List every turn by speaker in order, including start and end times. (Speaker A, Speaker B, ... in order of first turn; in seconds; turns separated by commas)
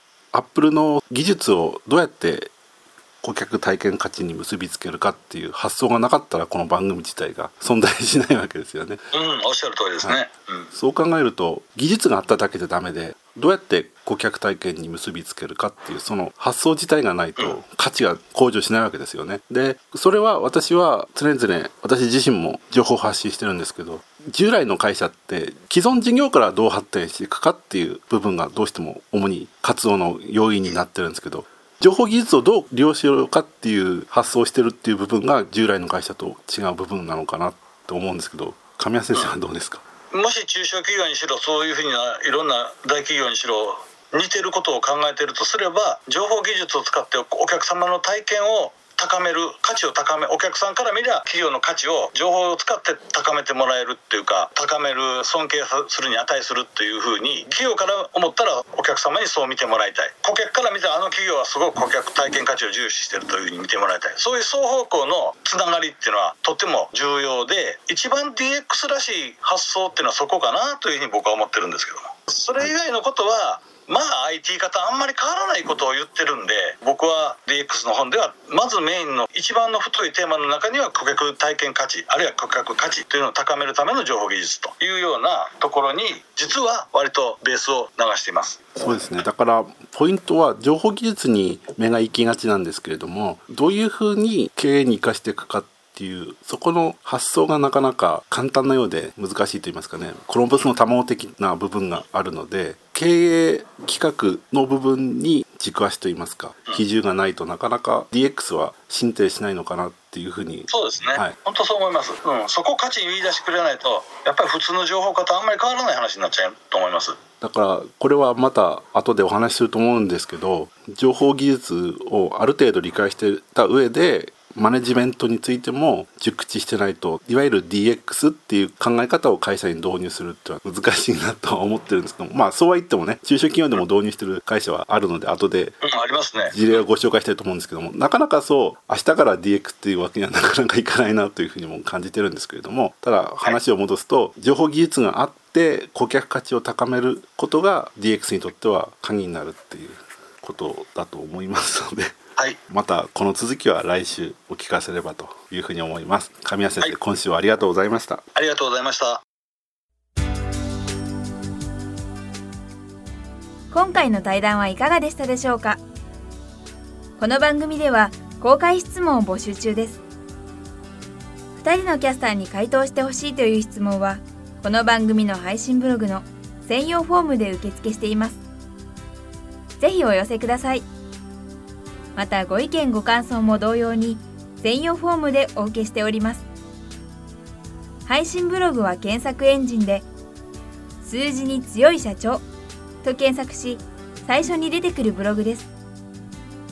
Speaker A: 0.3-2.5, Speaker A: 3.2-9.0, Speaker B: 9.1-10.7, Speaker A: 10.7-39.8, Speaker B: 40.1-88.7, Speaker A: 88.8-111.3, Speaker B: 110.7-117.2, Speaker A: 117.4-135.8, Speaker B: 135.8-136.8, Speaker A: 136.4-152.2, Speaker A: 152.7-158.2, Speaker B: 158.3-159.2, Speaker C: 163.7-165.8, Speaker C: 167.2-170.0, Speaker C: 171.6-178.4, Speaker C: 179.8-180.8, Speaker C: 182.1-186.4, Speaker C: 188.1-190.1, Speaker C: 191.0-192.4, Speaker C: 193.0-195.7